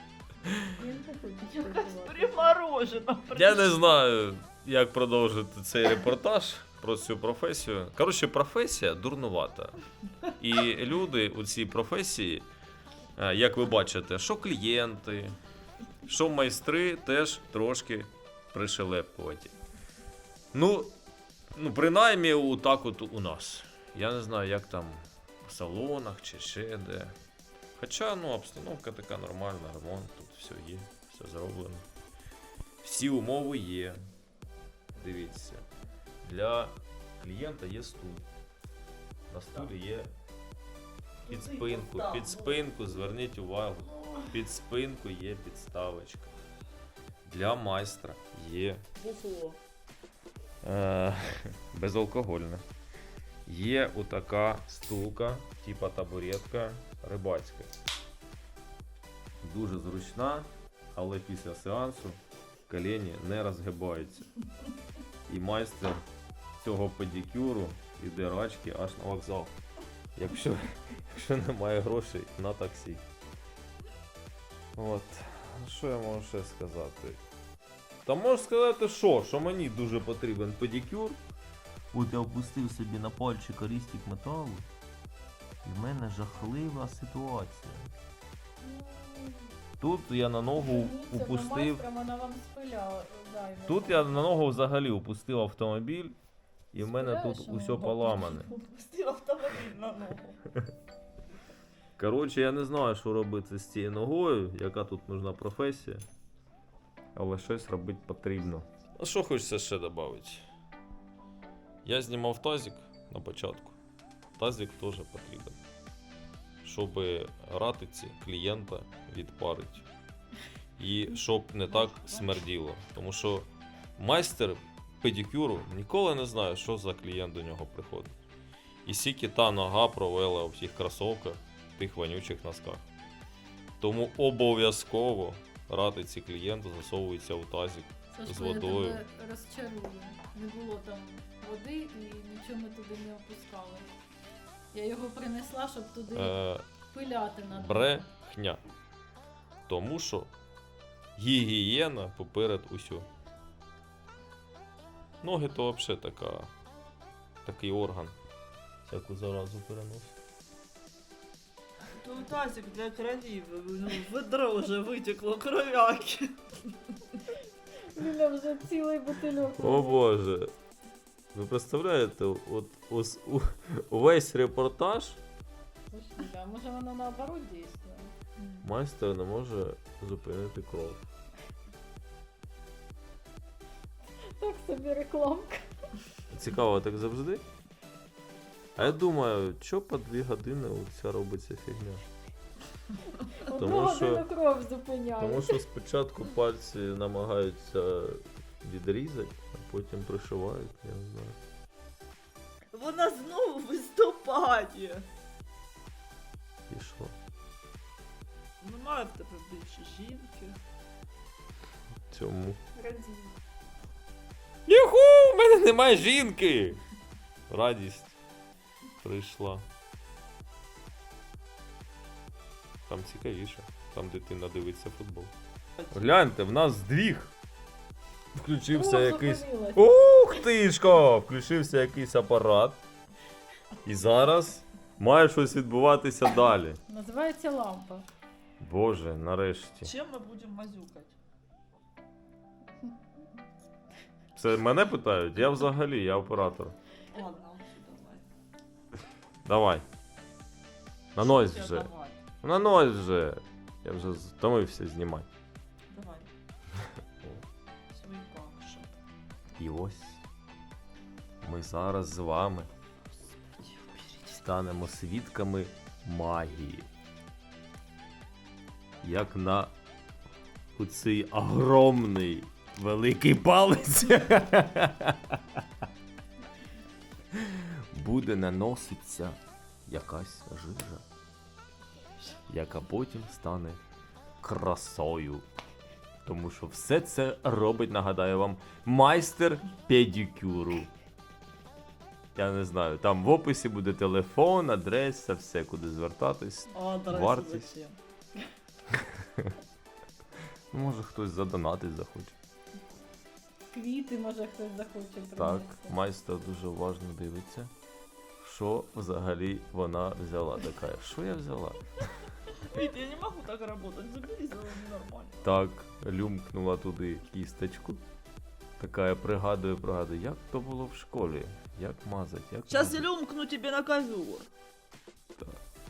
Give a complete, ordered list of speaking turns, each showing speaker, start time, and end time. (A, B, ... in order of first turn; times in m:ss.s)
0:00.7-0:02.5 A
0:01.5-0:03.9 B
0:03.3-0:09.8 C
0:10.4-0:12.5 C
0:13.2-0:15.4 C
0:16.0-0:19.5 C
0:20.5-0:20.9 C
0:21.5-0:27.1 C
0:27.8-0:31.8 C
0:32.8-0:34.0 C
0:34.9-0:35.6 C
0:36.2-0:38.3 C
0:39.3-0:40.1 C
0:41.2-0:42.8 B
0:41.3-0:46.3 C
0:43.9-0:44.3 B
0:47.2-0:48.8 C
0:49.0-0:49.6 B
0:50.6-0:52.6 C
0:53.4-0:57.7 C
0:59.4-1:04.3 C
1:05.3-1:06.0 C
1:06.6-1:09.5 C
1:10.2-1:13.0 C
1:14.8-1:17.2 C
1:18.0-1:21.2 C
1:21.9-1:24.6 C
1:25.6-1:27.9 C
1:28.6-1:29.5 A
1:29.8-1:31.9 C
1:30.6-1:34.2 A
1:33.7-1:36.2 C
1:36.7-1:38.5 C
1:36.8-1:38.5 A
1:38.2-1:40.4 B
1:42.0-1:46.0 C
1:47.1-1:50.4 C
1:51.8-1:53.8 C
1:54.4-1:55.6 C
1:56.6-1:59.9 C
2:00.8-2:08.1 C
2:01.7-2:02.4 B
2:08.8-2:12.8 C
2:13.8-2:19.0 C
2:18.1-2:23.9 A
2:24.7-2:28.0 A
2:26.1-2:26.7 C
2:27.5-2:28.6 C
2:29.7-2:30.3 C
2:31.2-2:33.1 C
2:35.2-2:36.5 C
2:37.4-2:38.1 C
2:38.8-2:40.2 C
2:42.0-2:46.9 B
2:47.9-2:50.0 A
2:49.6-2:50.5 C
2:51.3-2:55.2 C
2:55.9-2:58.1 A
2:58.4-2:58.6 B
2:58.6-3:01.0 C
3:04.3-3:05.6 A
3:06.3-3:07.4 C
3:08.8-3:12.0 C
3:13.2-3:15.6 A
3:13.4-3:14.2 C
3:15.2-3:21.4 C
3:22.7-3:25.1 B
3:26.7-3:27.1 C
3:28.6-3:30.6 B
3:32.1-3:32.6 C
3:32.8-3:33.3 B
3:34.7-3:36.8 C
3:37.5-3:38.2 C
3:39.0-3:39.6 C
3:42.9-3:45.3 C
3:45.9-3:47.3 C
3:48.3-3:52.8 C
3:48.7-3:50.4 A
3:53.8-3:56.8 C
3:56.9-3:58.1 A
3:58.6-3:59.9 C
3:59.8-4:01.2 B
4:04.3-4:06.7 C
4:07.1-4:08.2 B
4:09.4-4:09.8 C
4:11.1-4:11.9 C
4:11.2-4:12.2 B
4:12.4-4:15.3 C
4:15.9-4:16.3 B
4:17.9-4:19.0 B
4:19.6-4:20.2 C
4:21.4-4:22.7 C
4:23.1-4:24.4 B
4:24.3-4:26.9 C
4:29.0-4:29.7 C
4:30.8-4:35.6 C
4:37.3-4:41.0 C
4:42.5-4:43.8 C
4:44.4-4:45.4 C
4:46.2-4:50.9 C
4:52.3-4:57.7 C
4:56.7-4:58.0 B
4:59.1-4:59.5 C
5:00.7-5:02.4 C
5:03.7-5:06.0 A
5:05.4-5:07.7 C
5:08.4-5:12.0 C
5:12.5-5:15.5 B
5:15.4-5:18.0 C
5:18.8-5:23.0 C
5:22.7-5:24.5 B